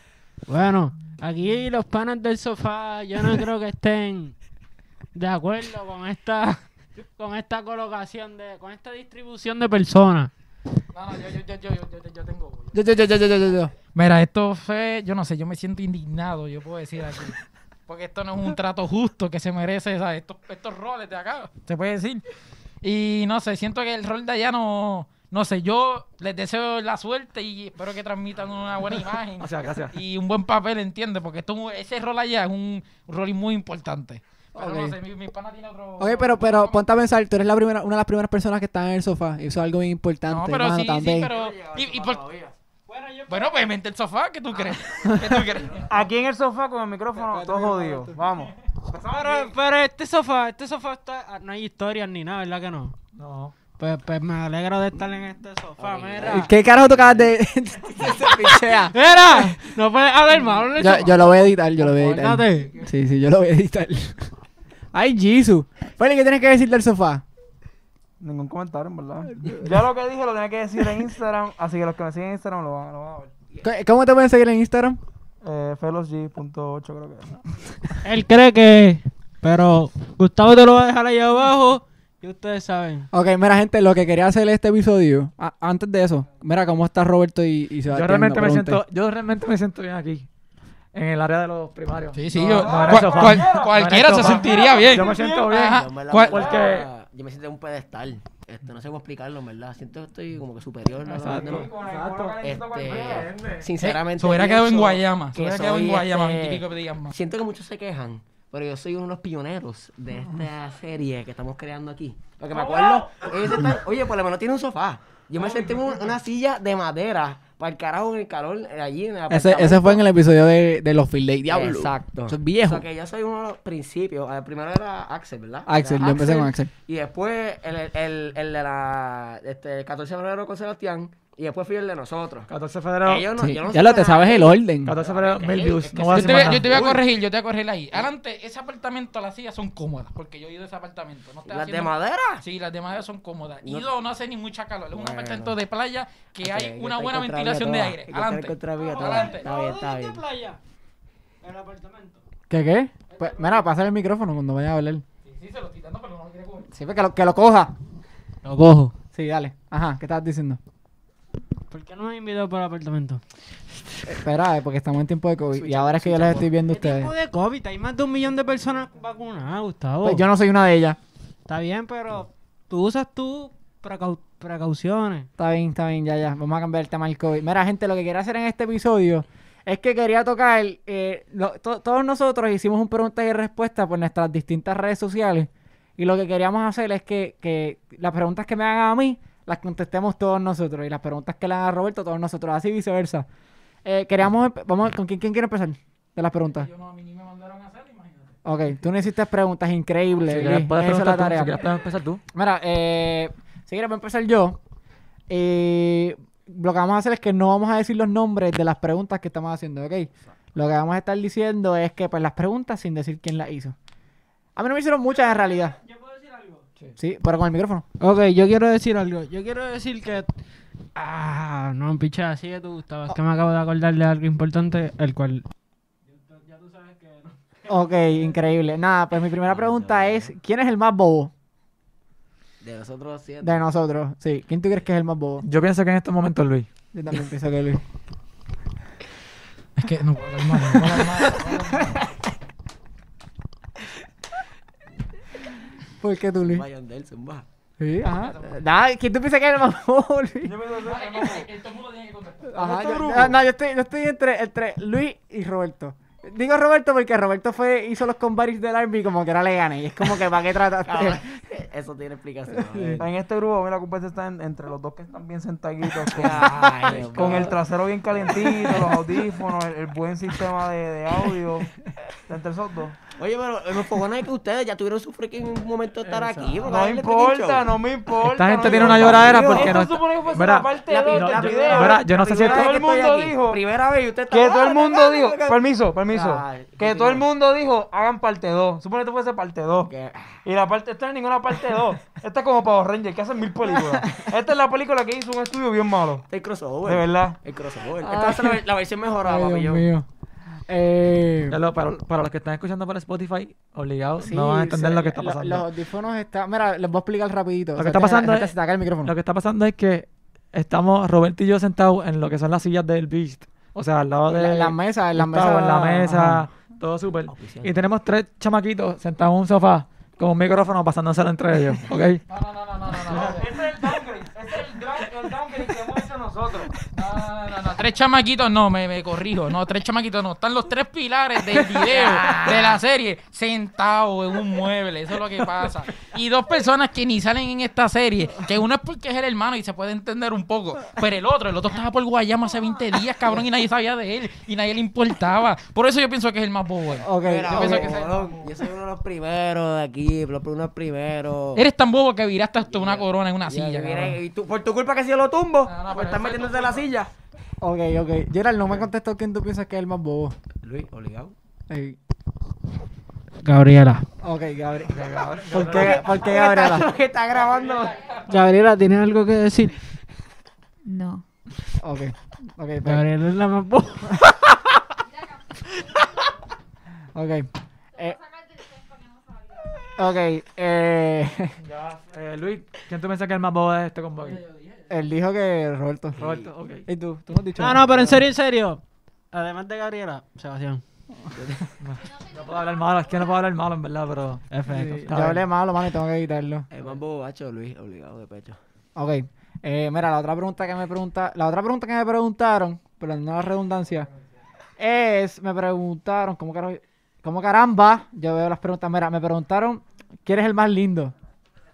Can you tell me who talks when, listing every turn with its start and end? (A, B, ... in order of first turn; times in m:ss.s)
0:00.5-0:04.4 A
0:05.1-0:06.6 A
0:07.2-0:10.3 A
0:10.9-0:13.1 B
0:12.7-0:13.7 C
0:13.9-0:22.2 B
0:22.8-0:37.0 B
0:29.4-0:30.0 D
0:34.5-0:35.0 C
0:36.0-0:41.3 C
0:40.3-0:42.3 B
0:41.3-0:42.5 E
0:41.5-0:42.0 F
0:42.9-0:43.7 A
0:43.3-0:45.9 B
0:45.1-0:45.4 C
0:45.9-0:49.5 F
0:47.2-0:48.1 C
0:49.0-0:53.0 A
0:53.1-0:53.5 D
0:53.8-0:56.5 A
0:55.8-0:57.3 E
0:56.2-0:59.7 C
0:58.9-1:02.9 A
1:00.8-1:04.3 C
1:04.9-1:07.2 C
1:08.2-1:13.3 F
1:13.6-1:15.0 C
1:15.4-1:17.4 F
1:18.0-1:23.1 A
1:23.1-1:28.8 C
1:27.9-1:30.3 D
1:30.9-1:36.9 D
1:32.1-1:36.5 B
1:32.5-1:35.6 F
1:35.6-1:41.7 E
1:36.3-1:36.7 F
1:41.0-1:43.7 D
1:41.2-1:43.5 F
1:42.4-2:00.0 E
1:43.8-1:47.1 B
1:52.5-1:52.9 F
1:55.4-1:56.1 F
1:59.3-2:02.8 C
2:01.5-2:12.5 E
2:05.7-2:06.7 C
2:12.5-2:13.3 D
2:13.0-2:17.0 E
2:13.4-2:15.0 C
2:14.8-2:17.0 D
2:16.1-2:29.4 B
2:21.4-2:22.4 E
2:24.9-2:25.6 E
2:26.4-2:30.2 E
2:28.8-2:30.6 A
2:31.4-2:32.2 A
2:32.5-2:35.0 C
2:33.1-2:33.7 A
2:35.2-2:36.7 B
2:36.7-2:37.7 C
2:38.4-2:38.9 A
2:38.9-2:40.6 C
2:41.7-2:43.2 A
2:44.1-2:47.1 C
2:45.7-2:46.4 D
2:45.9-2:46.4 E
2:46.7-2:50.2 A
2:50.0-2:51.0 C
2:51.5-2:55.3 A
2:55.4-3:13.3 C
3:13.8-3:16.7 C
3:16.5-3:18.4 B
3:18.4-3:21.6 C
3:20.2-3:22.2 D
3:22.3-3:24.6 C
3:25.3-3:33.7 C
3:34.6-3:35.8 C
3:35.1-3:36.6 A
3:37.0-3:37.8 C
3:38.0-3:40.3 A
3:41.0-3:45.4 A
3:46.0-3:47.4 A
3:47.7-3:51.3 C
3:49.4-3:50.3 E
3:52.6-3:53.6 E
3:53.4-3:55.4 C
3:55.4-3:56.7 D
3:56.9-3:57.8 C
3:59.8-4:02.0 B
4:06.0-4:06.6 C
4:06.5-4:07.4 E
4:07.8-4:10.6 C
4:08.0-4:08.6 B
4:10.4-4:11.5 F
4:10.8-4:12.6 B
4:12.5-4:21.2 C
4:12.6-4:13.3 F
4:20.8-4:23.1 E
4:22.5-4:23.0 C
4:23.0-4:31.7 F
4:26.1-4:27.6 E
4:26.5-4:27.0 C
4:32.3-4:33.0 F
4:33.2-4:37.7 E
4:36.0-4:36.8 D
4:36.6-4:43.6 F
4:38.2-4:42.7 D
4:38.6-4:39.8 E
4:40.8-4:45.6 E
4:44.3-4:49.9 F
4:46.1-4:47.2 E
4:49.9-4:50.4 E
4:50.4-4:56.2 F
4:56.3-4:59.8 E
4:56.8-4:57.4 F
4:58.0-4:58.5 C
4:59.2-5:00.0 C
5:00.7-5:01.6 C
5:01.5-5:05.6 D
5:04.2-5:09.1 C
5:07.8-5:08.5 D
5:09.0-5:22.2 D
5:14.3-5:16.5 C
5:17.2-5:17.8 E
5:22.3-5:23.5 B
5:23.1-5:26.7 F
5:26.9-5:48.4 B
5:31.7-5:32.7 C
5:46.9-5:47.9 C
5:47.2-5:51.6 E
5:47.6-5:48.5 F
5:51.5-5:54.2 B
5:52.7-5:57.1 E
5:55.6-5:56.9 B
5:57.6-6:00.4 C
6:00.6-6:01.3 E
6:01.7-6:02.0 C
6:03.4-6:04.0 A
6:04.2-6:06.9 C
6:04.9-6:06.1 D
6:05.6-6:08.0 E
6:07.3-6:08.2 B
6:08.3-6:09.8 A
6:10.8-6:11.2 G
6:11.8-6:13.0 C
6:12.8-6:14.2 A
6:15.0-6:16.3 G
6:17.1-6:18.2 C
6:17.9-6:19.9 G
6:20.0-6:21.6 C
6:21.6-6:24.4 D
6:24.4-6:24.7 A
6:24.9-6:26.3 C
6:26.2-6:26.5 E
6:26.2-6:26.8 D
6:26.8-6:28.2 C
6:27.6-6:30.8 A
6:31.3-6:31.7 E
6:31.8-6:35.4 D
6:31.9-6:33.5 G
6:34.5-6:35.1 A
6:34.7-6:36.7 C
6:36.7-6:38.6 E
6:38.9-6:44.1 C
6:44.8-6:51.1 C